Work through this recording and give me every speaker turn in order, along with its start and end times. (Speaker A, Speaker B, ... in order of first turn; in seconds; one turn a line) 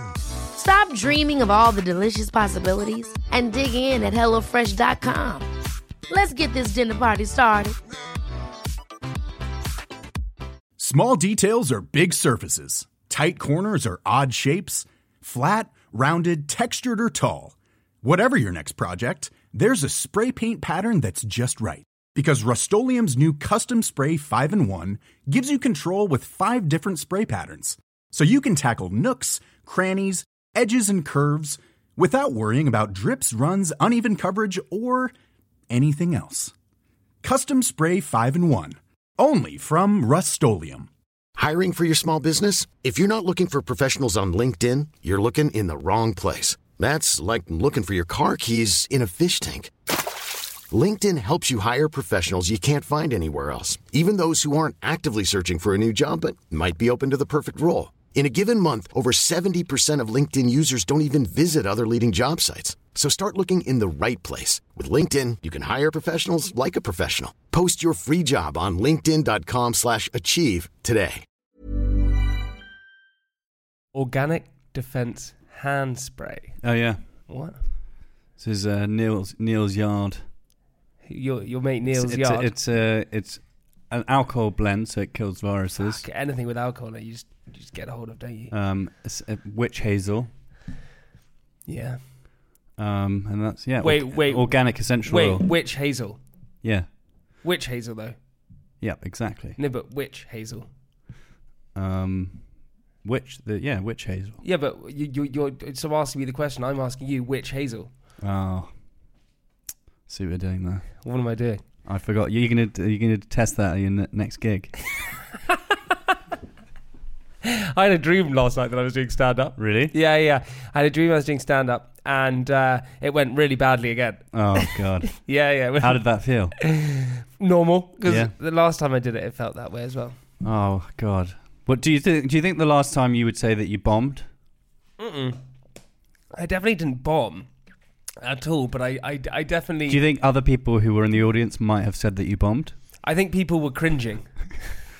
Speaker A: 0.5-5.5
Speaker A: 6.1-7.8
Speaker B: 10.8-35.1
Speaker B: 35.7-36.5
Speaker B: 37.2-40.9
Speaker C: 41.4-49.7
Speaker C: 50.7-71.2
Speaker D: 73.9-76.6
Speaker E: 76.6-77.0
Speaker D: 77.3-77.6
Speaker E: 78.4-80.2
Speaker D: 81.0-82.5
Speaker E: 81.9-86.0
Speaker D: 85.8-88.5
Speaker E: 88.5-90.3
Speaker D: 91.7-92.0
Speaker E: 92.8-95.5
Speaker D: 93.8-96.2
Speaker E: 96.6-96.9
Speaker D: 97.4-98.2
Speaker E: 98.8-99.6
Speaker D: 99.6-100.7
Speaker E: 101.8-102.5
Speaker E: 103.0-104.4
Speaker D: 104.4-107.9
Speaker E: 108.2-108.7
Speaker E: 110.1-111.0
Speaker D: 111.0-111.6
Speaker E: 111.8-114.7
Speaker D: 117.4-130.2
Speaker E: 119.6-119.9
Speaker E: 124.3-125.2
Speaker E: 125.8-126.5
Speaker E: 128.1-128.3
Speaker E: 130.4-134.3
Speaker D: 135.0-135.4
Speaker D: 136.3-137.5
Speaker D: 138.2-140.0
Speaker E: 139.9-142.8
Speaker D: 143.0-144.5